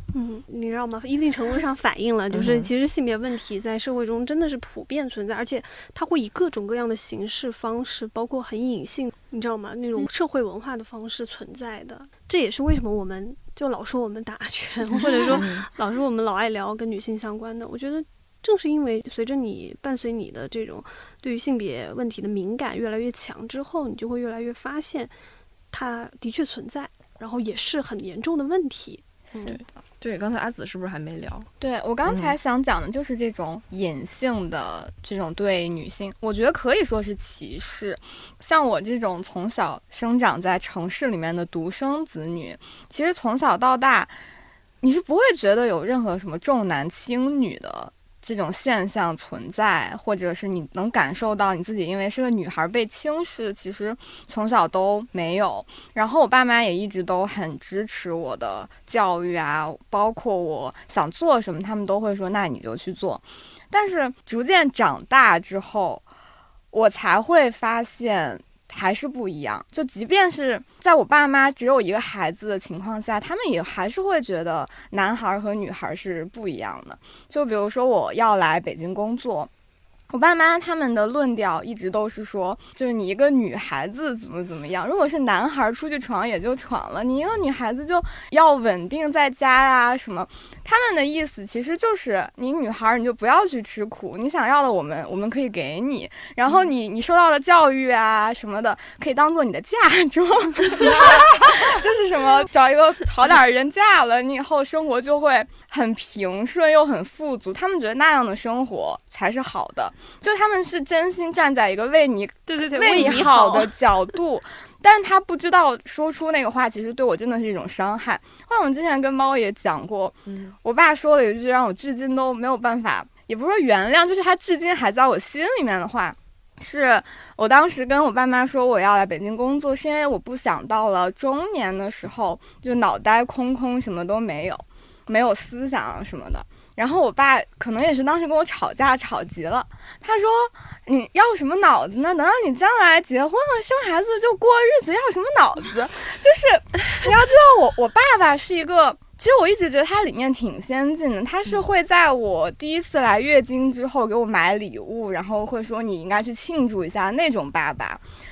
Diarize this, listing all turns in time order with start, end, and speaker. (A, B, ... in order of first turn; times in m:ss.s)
0:00.1-0:25.1 A
0:02.4-0:02.6 B
0:15.3-0:15.6 B
0:25.7-0:29.6 A
0:29.4-0:31.5 B
0:31.6-0:44.1 C
0:32.0-0:32.3 B
0:44.8-1:06.0 C
1:06.7-1:19.5 C
1:20.1-2:38.0 C
1:52.5-1:53.8 A
2:00.3-2:00.5 B